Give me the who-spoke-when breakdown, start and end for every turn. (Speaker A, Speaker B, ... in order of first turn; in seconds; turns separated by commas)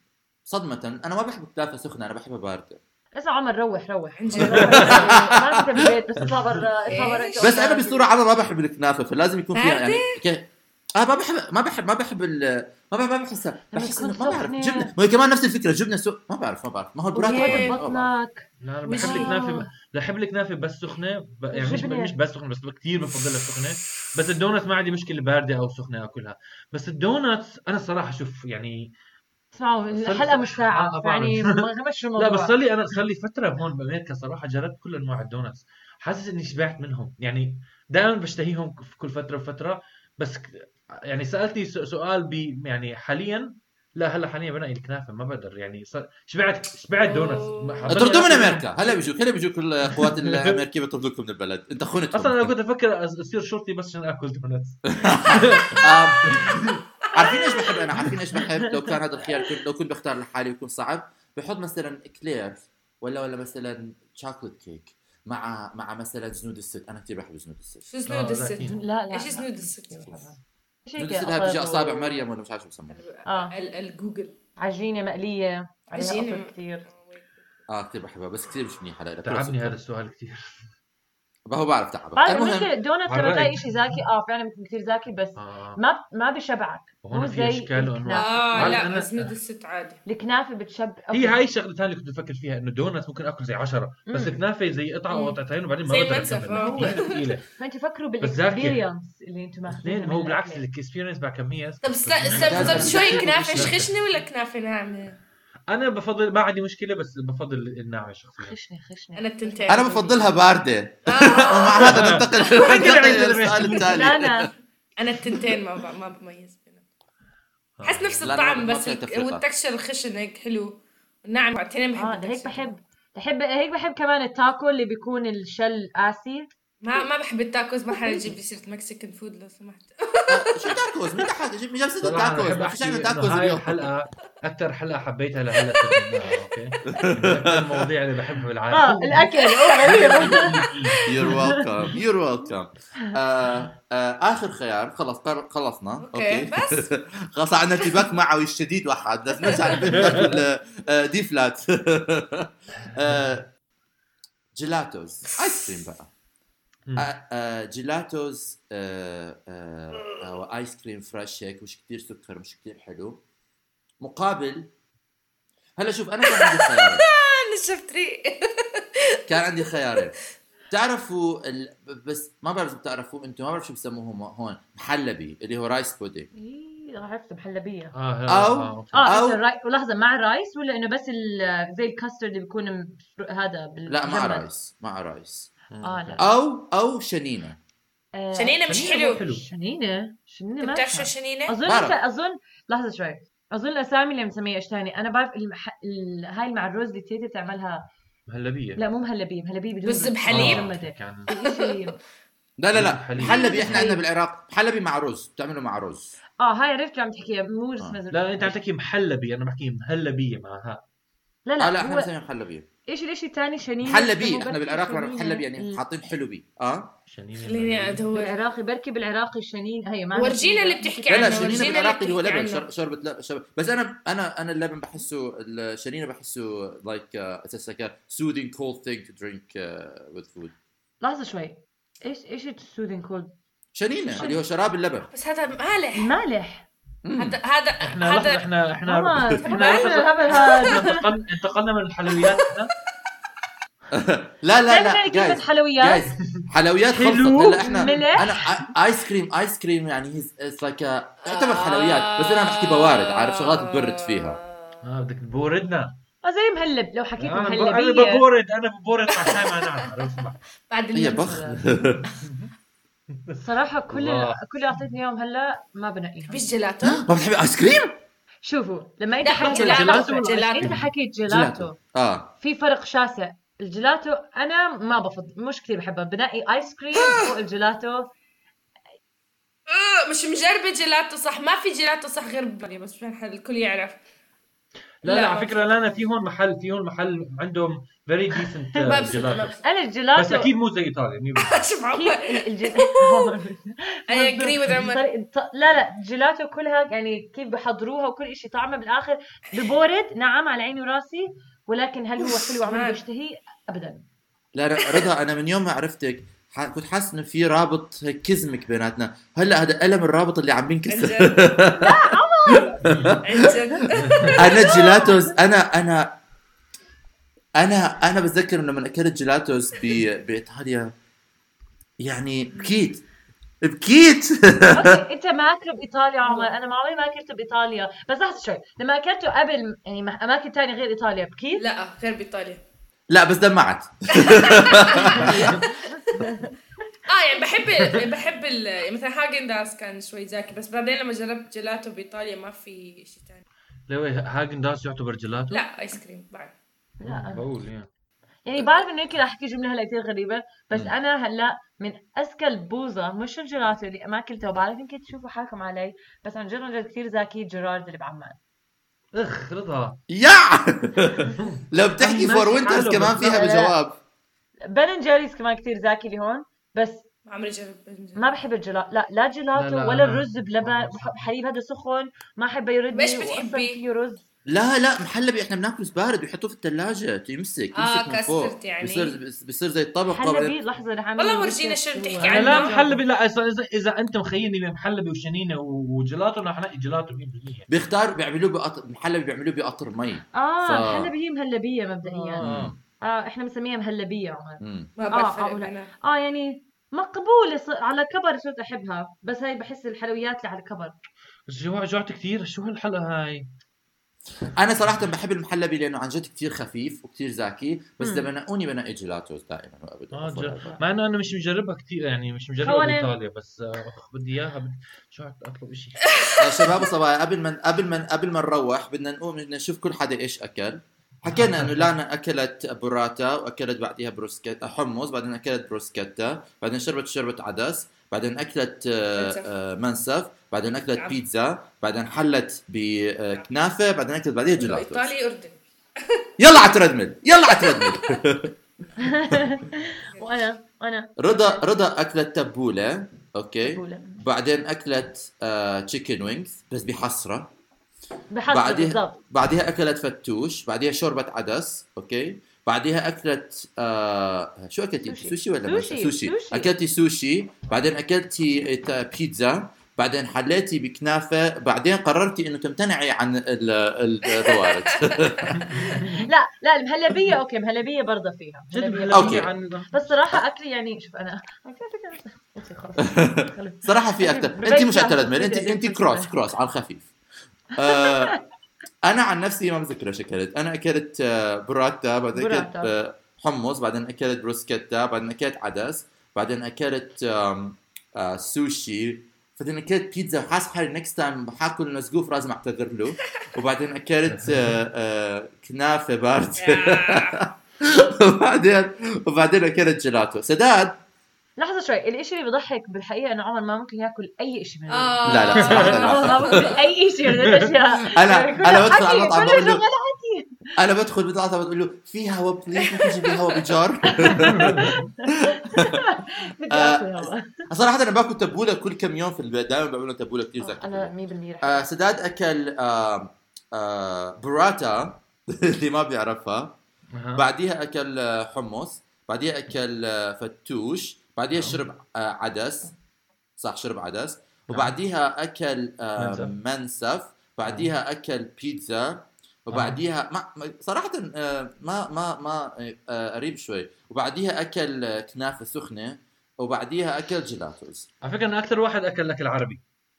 Speaker A: 0.5-2.8, Speaker B: 3.2-8.1, Speaker C: 4.2-5.3, Speaker D: 4.6-5.0, Speaker A: 4.6-5.9, Speaker C: 6.9-7.8, Speaker A: 7.4-18.1, Speaker C: 9.6-10.2, Speaker B: 13.7-14.9, Speaker C: 17.1-17.8, Speaker B: 17.2-19.7, Speaker D: 18.6-28.9, Speaker C: 18.9-19.4, Speaker B: 21.5-22.1, Speaker B: 29.5-32.5, Speaker D: 29.9-31.6, Speaker D: 32.2-48.7, Speaker C: 47.0-48.1, Speaker A: 47.9-52.5, Speaker D: 49.9-50.6, Speaker D: 52.1-56.8, Speaker A: 54.9-56.6, Speaker A: 57.1-67.8, Speaker C: 57.2-57.8, Speaker C: 67.9-70.3, Speaker D: 68.1-68.8, Speaker B: 68.6-72.2, Speaker A: 71.0-73.0, Speaker C: 72.9-74.3, Speaker B: 73.2-73.5, Speaker B: 74.6-76.9, Speaker C: 75.9-77.3, Speaker A: 77.7-79.8, Speaker D: 79.2-80.7, Speaker A: 81.5-82.7, Speaker B: 82.2-88.8, Speaker D: 83.1-83.9, Speaker D: 85.4-85.8, Speaker D: 87.0-89.3, Speaker C: 88.1-90.0, Speaker B: 90.1-91.4, Speaker D: 91.1-97.4, Speaker B: 94.1-94.4, Speaker C: 95.9-97.3, Speaker B: 96.6-97.0, Speaker B: 97.6-100.6, Speaker D: 98.2-98.8, Speaker D: 99.8-103.9, Speaker C: 101.8-105.2, Speaker A: 102.4-103.9, Speaker D: 105.7-108.5, Speaker B: 108.4-110.3, Speaker C: 109.2-110.2, Speaker A: 109.7-114.5, Speaker C: 111.1-112.2, Speaker D: 111.8-113.9, Speaker C: 112.9-113.2, Speaker B: 113.7-114.5, Speaker C: 115.0-116.8, Speaker D: 117.8-118.4, Speaker C: 117.8-122.8, Speaker A: 118.2-119.4, Speaker B: 122.0-126.5, Speaker C: 126.8-130.9, Speaker B: 127.9-128.4, Speaker A: 130.3-133.9, Speaker D: 132.0-141.5, Speaker A: 136.9-137.9, Speaker B: 138.7-141.6, Speaker A: 141.1-153.5, Speaker C: 146.0-146.9, Speaker D: 149.8-150.4, Speaker A: 154.6-156.1, Speaker A: 157.0-163.2, Speaker A: 164.0-164.7, Speaker A: 165.8-167.1, Speaker C: 166.2-170.1, Speaker A: 169.3-170.2, Speaker A: 170.7-176.3, Speaker B: 176.3-177.9, Speaker D: 177.9-179.1, Speaker A: 178.3-179.4, Speaker B: 178.9-184.5, Speaker A: 183.9-185.5, Speaker D: 185.7-186.3, Speaker B: 185.8-186.3, Speaker A: 186.2-187.6, Speaker B: 188.2-197.9, Speaker C: 188.3-189.2, Speaker D: 188.6-189.5, Speaker C: 190.6-191.6, Speaker A: 191.7-192.0, Speaker D: 198.3-198.8, Speaker B: 198.8-202.0, Speaker C: 199.8-200.7, Speaker D: 200.3-201.3, Speaker C: 201.3-201.6, Speaker A: 202.6-206.2, Speaker D: 202.7-203.8, Speaker B: 203.2-204.0, Speaker B: 206.4-208.6, Speaker D: 208.1-210.8, Speaker B: 211.5-212.1, Speaker A: 211.6-212.7, Speaker B: 212.9-215.8, Speaker A: 213.8-216.9, Speaker D: 217.1-218.0, Speaker C: 217.4-218.4, Speaker B: 218.1-221.8, Speaker C: 220.1-222.7, Speaker A: 221.1-230.5, Speaker B: 231.0-233.3, Speaker A: 233.8-235.1, Speaker B: 234.1-234.4, Speaker C: 235.1-236.1, Speaker B: 235.9-236.7, Speaker A: 237.0-237.4, Speaker C: 237.2-238.4, Speaker D: 237.8-242.7, Speaker B: 238.9-241.1, Speaker C: 239.4-240.7, Speaker A: 243.9-254.4, Speaker B: 244.7-246.1, Speaker D: 246.4-247.9, Speaker B: 247.6-248.4, Speaker C: 251.3-254.8, Speaker D: 254.8-255.9, Speaker B: 256.2-258.2, Speaker D: 257.2-260.4, Speaker C: 259.1-259.6, Speaker C: 260.7-262.2, Speaker A: 260.9-262.1, Speaker D: 262.2-262.5, Speaker D: 263.3-264.5, Speaker B: 263.4-266.5, Speaker C: 266.3-267.0, Speaker A: 266.8-268.0, Speaker B: 268.4-271.8, Speaker C: 269.2-270.8, Speaker D: 269.4-270.9, Speaker A: 271.3-272.3, Speaker B: 272.4-278.1, Speaker C: 277.0-277.3, Speaker C: 279.7-284.0, Speaker D: 285.0-289.5, Speaker C: 285.1-285.6, Speaker C: 288.8-289.6, Speaker B: 289.5-290.5, Speaker D: 290.2-291.7, Speaker C: 291.4-293.3, Speaker B: 291.9-304.0, Speaker C: 294.1-295.1, Speaker C: 302.2-303.0, Speaker A: 304.6-313.5, Speaker C: 304.8-305.1, Speaker C: 310.9-311.6, Speaker B: 311.7-312.8, Speaker D: 312.9-313.1, Speaker C: 313.2-315.1, Speaker D: 314.0-314.3, Speaker A: 314.4-316.2, Speaker B: 314.5-315.2, Speaker A: 317.6-320.9, Speaker A: 322.0-323.0, Speaker A: 323.6-325.0, Speaker B: 324.7-331.6, Speaker C: 326.2-326.5, Speaker C: 331.6-332.6, Speaker A: 333.1-335.6, Speaker C: 334.2-335.9, Speaker D: 335.1-335.6, Speaker B: 336.1-336.5, Speaker C: 337.1-343.4, Speaker D: 343.9-345.6, Speaker C: 345.5-346.5, Speaker B: 347.0-347.5, Speaker D: 347.0-347.9, Speaker B: 348.5-358.4, Speaker D: 359.1-360.0, Speaker A: 360.1-364.0, Speaker D: 361.4-363.4, Speaker B: 363.2-363.8, Speaker B: 364.7-367.1, Speaker C: 367.3-368.3, Speaker B: 368.2-374.2, Speaker D: 369.6-371.3, Speaker C: 372.9-373.8, Speaker A: 374.5-380.6, Speaker C: 377.8-379.2, Speaker B: 380.1-383.0, Speaker C: 381.2-382.8, Speaker D: 382.2-387.7, Speaker A: 387.7-391.1, Speaker B: 390.4-392.4, Speaker D: 392.1-392.7, Speaker A: 392.4-392.8, Speaker B: 393.0-400.9, Speaker A: 394.6-394.9, Speaker C: 395.0-395.9, Speaker D: 401.5-403.5, Speaker A: 404.5-410.8, Speaker B: 408.0-408.3, Speaker D: 410.1-416.1, Speaker B: 412.6-413.1, Speaker A: 416.4-435.1, Speaker D: 421.3-421.9, Speaker C: 429.2-429.5, Speaker C: 434.6-436.2, Speaker A: 436.4-438.5, Speaker C: 437.5-438.2, Speaker B: 439.0-441.6, Speaker C: 440.1-440.5, Speaker A: 441.2-447.5, Speaker B: 443.6-444.2, Speaker B: 448.3-449.2, Speaker A: 448.5-465.6, Speaker B: 455.1-456.7, Speaker C: 464.4-465.8, Speaker D: 465.5-466.3, Speaker B: 466.2-476.3, Speaker D: 468.7-470.1, Speaker A: 469.1-469.5, Speaker A: 473.0-477.1, Speaker A: 477.8-478.4, Speaker B: 478.0-478.4, Speaker A: 479.0-501.0, Speaker B: 482.4-482.9, Speaker D: 494.3-494.8, Speaker C: 496.6-497.5, Speaker B: 501.6-510.6, Speaker C: 504.9-506.8, Speaker A: 505.2-506.8, Speaker D: 505.7-505.9, Speaker A: 508.0-509.8, Speaker A: 510.8-516.0, Speaker B: 512.9-513.3, Speaker B: 514.1-517.7, Speaker D: 514.5-515.0, Speaker A: 516.7-526.8, Speaker B: 520.6-521.9, Speaker D: 527.1-527.5, Speaker A: 527.4-532.9, Speaker D: 531.6-531.8, Speaker A: 533.6-548.1, Speaker D: 534.7-535.0, Speaker D: 536.2-536.5, Speaker D: 539.7-540.0, Speaker D: 548.2-549.8